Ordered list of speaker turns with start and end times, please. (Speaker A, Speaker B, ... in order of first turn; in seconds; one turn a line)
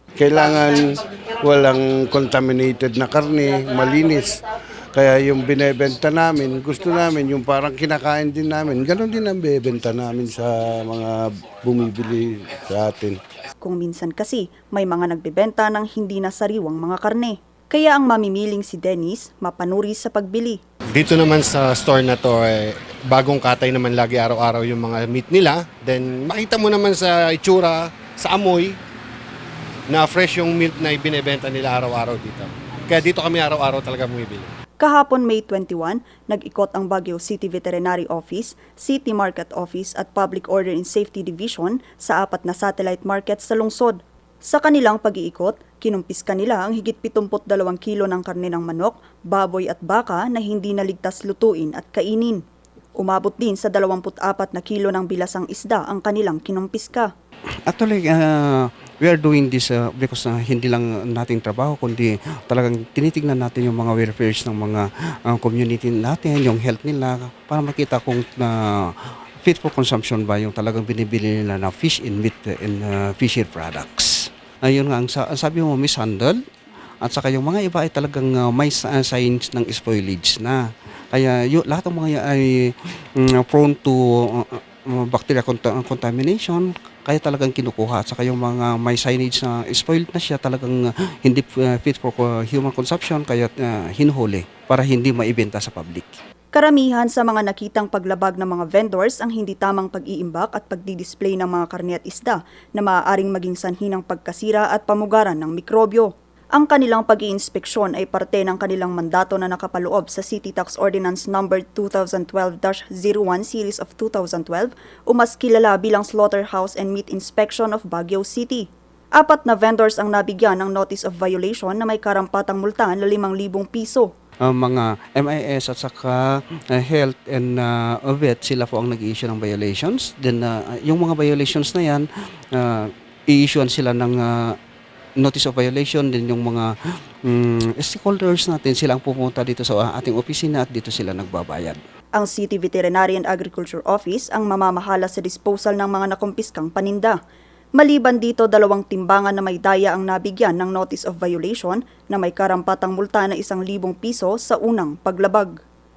Speaker A: 0.2-4.4
Speaker A: 4.9-13.2
Speaker B: 13.6-20.6
Speaker C: 20.9-28.8
Speaker C: 29.9-34.5
Speaker B: 34.8-52.4
Speaker B: 53.0-57.1
Speaker D: 57.7-76.4
Speaker D: 77.0-96.2
Speaker B: 96.5-124.1
Speaker D: 124.4-134.5
Speaker D: 135.2-136.7
Speaker D: 137.2-141.8
Speaker B: 142.1-147.2
Speaker B: 147.8-155.6